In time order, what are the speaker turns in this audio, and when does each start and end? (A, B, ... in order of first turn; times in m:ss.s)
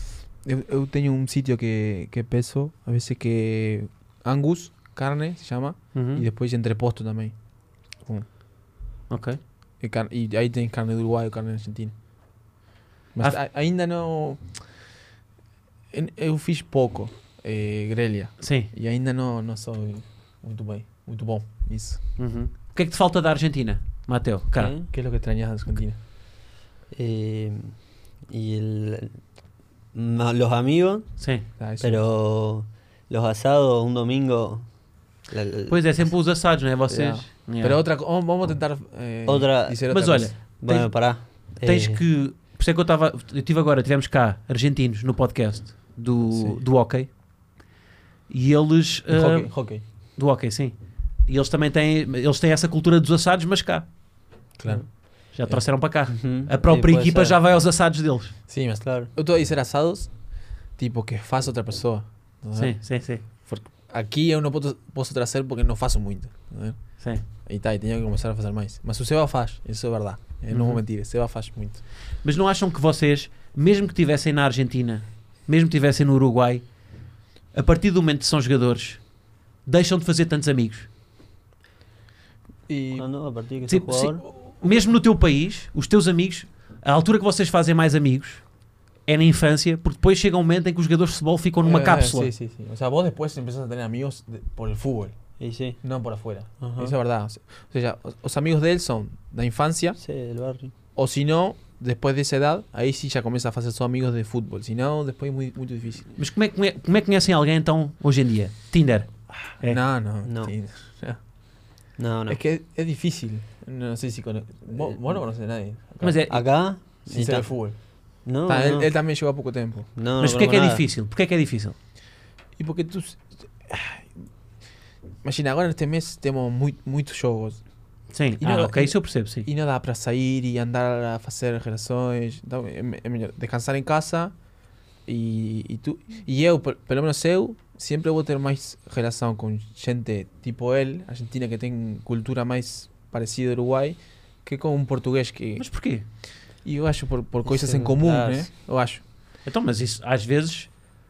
0:00.4-0:07.4 A
0:05.9-0:06.3 B
0:09.1-0:09.4 B
0:09.8-0:11.9 A
0:13.1-0:14.7 A
0:15.9-0:22.0 A
0:18.4-0:18.7 B
0:22.2-0:24.7 B
0:24.6-0:24.9 C
0:24.9-0:26.0 A
0:26.9-0:27.8 C
0:28.3-0:29.2 C
0:29.9-0:31.1 C
0:31.2-0:31.5 B
0:31.6-0:32.0 A
0:31.8-0:34.7 C
0:35.3-0:35.8 C
0:35.7-0:37.8 B
0:36.9-0:40.3 A
0:39.3-0:42.0 C
0:39.9-0:47.1 B
0:46.3-0:46.6 A
0:48.3-0:49.5 B
0:49.1-0:49.8 A
0:50.2-0:50.7 B
0:51.3-0:53.9 B
0:54.6-0:55.6 A
0:55.3-0:58.4 B
0:56.1-0:57.4 C
0:58.5-1:00.2 A
0:58.8-0:59.1 C
1:00.7-1:11.8 A
1:02.6-1:03.2 B
1:10.5-1:10.8 B
1:12.2-1:16.7 B
1:17.5-1:19.0 B
1:19.7-1:20.9 B
1:22.7-1:23.1 A
1:22.9-1:24.2 C
1:23.7-1:28.4 B
1:24.6-1:24.9 A
1:29.1-1:32.3 B
1:31.6-1:35.1 A
1:35.4-1:35.8 C
1:35.8-1:40.0 A
1:36.6-1:36.9 C
1:40.0-1:40.7 C
1:41.0-1:46.1 A
1:46.2-1:49.8 B
1:49.6-1:51.2 A
1:50.2-1:50.5 C
1:52.0-1:52.4 C
1:52.3-1:56.3 A
1:56.0-1:56.4 B
1:56.3-1:57.5 C
1:57.1-1:57.8 A
1:58.2-1:58.9 C
1:58.4-1:59.9 A
2:00.0-2:00.8 C
2:00.2-2:01.8 B
2:02.6-2:04.1 A
2:05.2-2:07.6 A
2:08.1-2:09.5 B
2:08.4-2:14.3 A
2:15.1-2:25.7 A
2:25.6-2:26.0 B
2:26.6-2:29.0 A
2:27.4-2:28.5 C
2:29.4-2:30.7 B